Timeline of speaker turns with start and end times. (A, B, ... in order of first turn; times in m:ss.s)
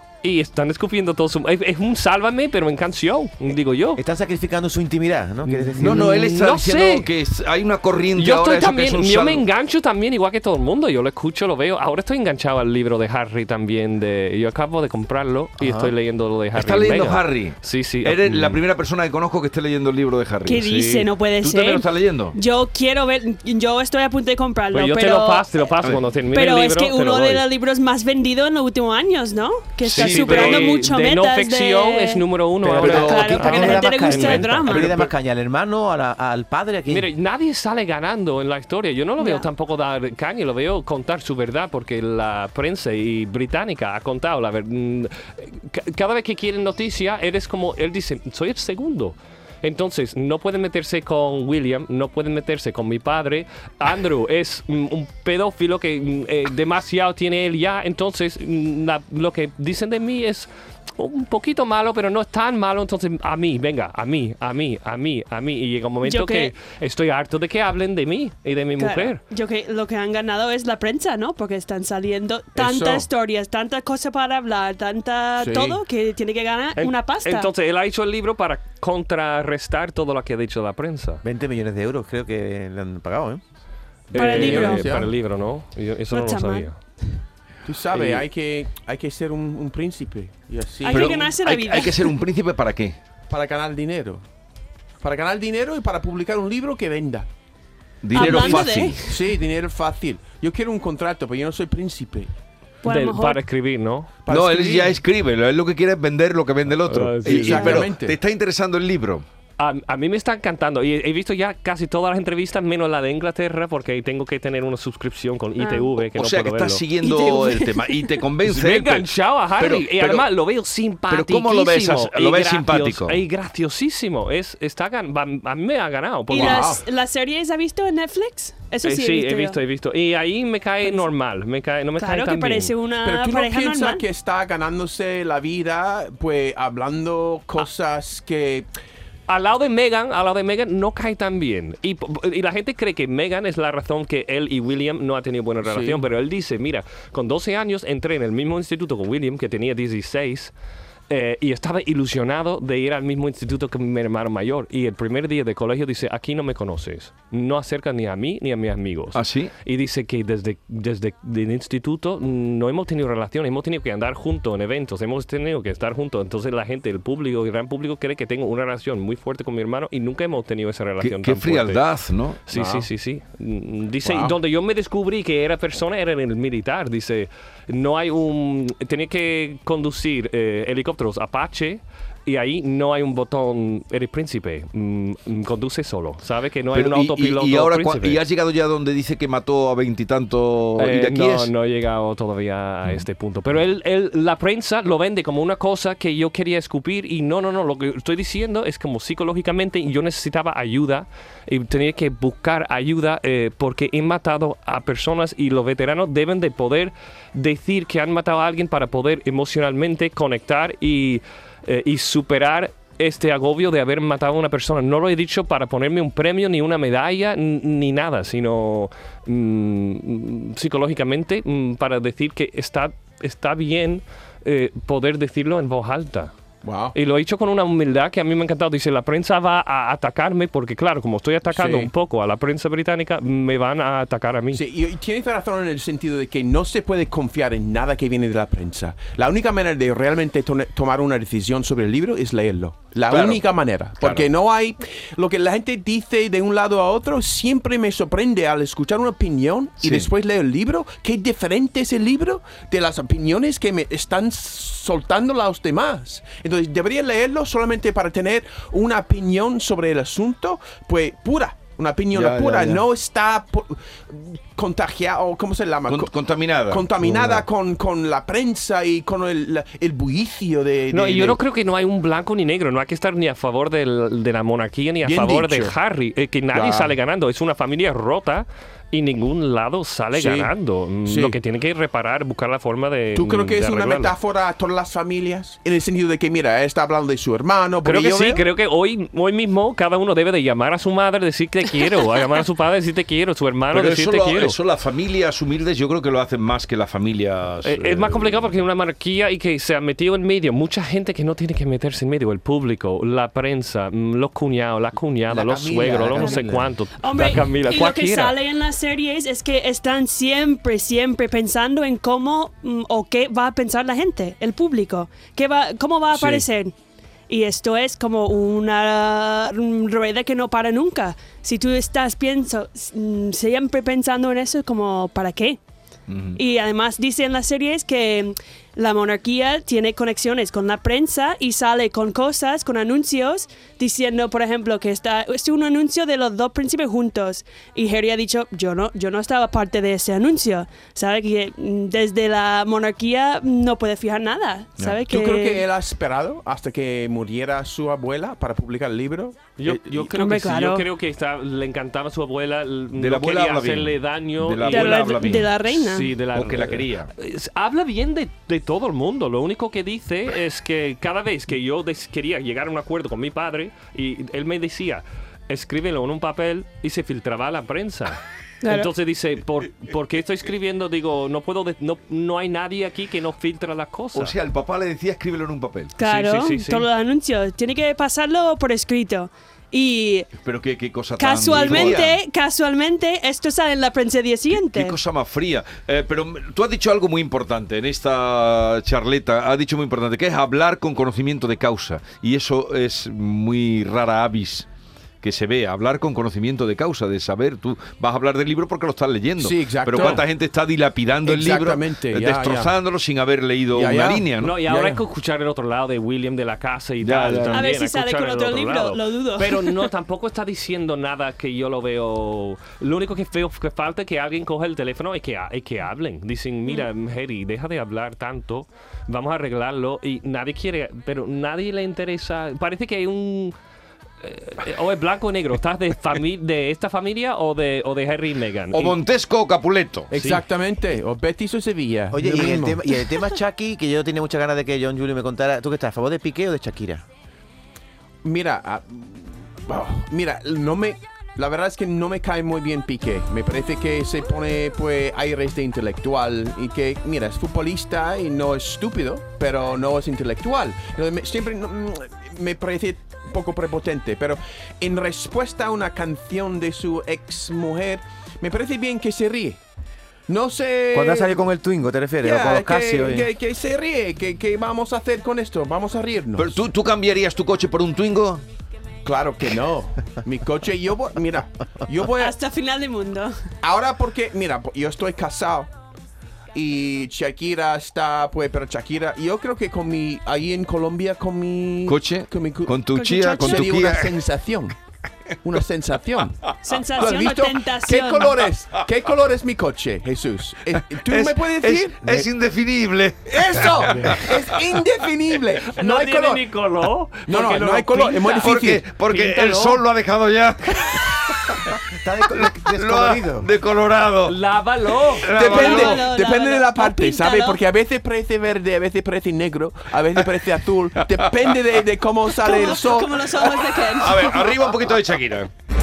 0:00.2-0:04.0 A
0:04.0-0:06.2 B
0:05.4-0:07.1 A
0:05.8-0:09.4 C
0:08.2-0:18.6 A
0:15.6-0:15.9 B
0:16.5-0:22.4 C
0:20.4-0:25.4 D
0:24.7-0:27.4 A
0:26.3-0:32.2 D
0:29.8-0:34.8 A
0:29.9-0:30.7 C
0:32.6-0:37.1 B
0:32.8-0:35.1 D
0:36.9-1:09.2 A
0:39.2-0:39.5 D
1:06.0-1:06.5 D
1:08.8-1:17.5 D
1:12.6-1:13.1 E
1:15.4-1:15.8 E
1:16.8-1:21.2 A
1:21.2-1:23.4 B
1:24.1-1:26.8 A
1:24.1-1:24.9 D
1:24.1-1:25.1 E
1:26.1-1:26.7 D
1:27.6-1:31.3 E
1:27.9-1:28.2 A
1:30.8-1:32.2 D
1:30.9-1:33.0 C
1:33.3-1:34.2 E
1:35.0-1:37.3 E
1:38.0-1:39.1 C
1:38.1-1:39.1 D
1:38.1-1:42.3 E
1:42.8-1:43.4 D
1:42.8-1:44.1 A
1:44.2-1:45.0 E
1:44.3-1:49.2 C
1:46.9-1:47.8 A
1:47.2-1:48.2 E
1:49.6-1:56.8 A
1:55.6-1:55.9 D
1:56.0-1:59.1 C
1:57.0-1:58.0 D
1:58.4-2:06.8 A
1:59.6-2:00.3 C
2:01.1-2:03.2 C
2:06.3-2:09.6 D
2:06.3-2:06.8 E
2:08.8-2:12.7 A
2:12.0-2:14.0 D
2:13.0-2:18.7 E
2:19.3-2:30.5 A
2:25.6-2:26.0 E
2:31.1-2:51.8 A
2:39.1-2:39.5 C
2:51.0-2:52.4 C
2:52.5-3:08.2 A
2:52.5-2:52.9 E
2:54.0-2:54.3 E
3:06.7-3:11.5 C
3:10.8-3:46.3 A
3:46.6-3:46.9 E
3:46.9-3:54.6 A
3:51.5-3:51.9 E
3:54.5-4:26.1 E
4:03.1-4:03.4 C
4:04.0-4:04.3 C
4:09.8-4:10.1 C
4:22.1-4:22.8 C
4:25.9-4:27.4 C
4:26.7-4:31.4 E
4:30.9-4:44.1 A
4:35.0-4:35.7 E
4:36.5-4:36.9 E
4:40.1-4:40.5 E
4:41.0-4:41.4 E
4:43.1-4:48.4 E
4:47.8-4:54.6 A
4:53.7-4:58.5 C
4:57.6-5:08.4 A
5:05.3-5:06.7 B
5:07.0-5:16.7 D
5:17.3-5:25.6 D
5:26.1-5:26.4 C
5:26.4-5:45.6 D
5:44.8-5:50.1 E
5:49.6-6:14.3 A
5:50.1-5:50.8 D
5:53.0-5:55.6 C
5:54.7-5:56.1 D
5:56.3-5:57.1 C
6:08.6-6:08.9 D
6:14.1-6:16.0 C
6:16.0-6:20.3 D
6:16.0-6:16.9 A
6:20.4-6:22.2 C
6:21.2-6:25.0 D
6:21.5-6:22.0 A
6:24.5-6:34.7 C
6:35.2-6:44.5 C
6:39.4-6:40.2 E
6:41.2-6:42.7 E
6:43.7-6:45.0 E
6:44.4-7:03.5 A
6:47.0-6:47.6 C
6:47.5-6:49.9 D
7:04.2-7:09.0 A
7:08.7-7:10.1 C
7:10.1-7:12.8 E
7:10.1-7:10.4 A
7:12.1-7:17.0 B
7:18.2-7:39.6 E
7:40.3-7:41.4 E
7:40.9-7:43.3 B
7:42.2-7:46.6 E
7:46.4-7:48.4 C
7:49.0-7:52.3 E
7:52.2-7:53.3 D
7:53.6-7:55.7 E
7:56.5-8:04.8 E
8:01.8-8:04.2 C
8:02.9-8:03.7 D
8:05.4-8:12.0 E
8:06.6-8:08.4 D
8:10.9-8:14.6 C
8:13.3-8:16.4 E
8:15.7-8:19.8 A
8:17.3-8:18.8 E
8:18.4-8:21.7 C
8:21.9-8:23.5 B
8:22.3-8:24.4 C
8:24.2-8:25.3 A
8:25.2-8:26.0 C
8:25.3-8:33.4 E
8:25.4-8:27.6 D
8:32.4-8:34.4 D
8:33.8-8:35.5 C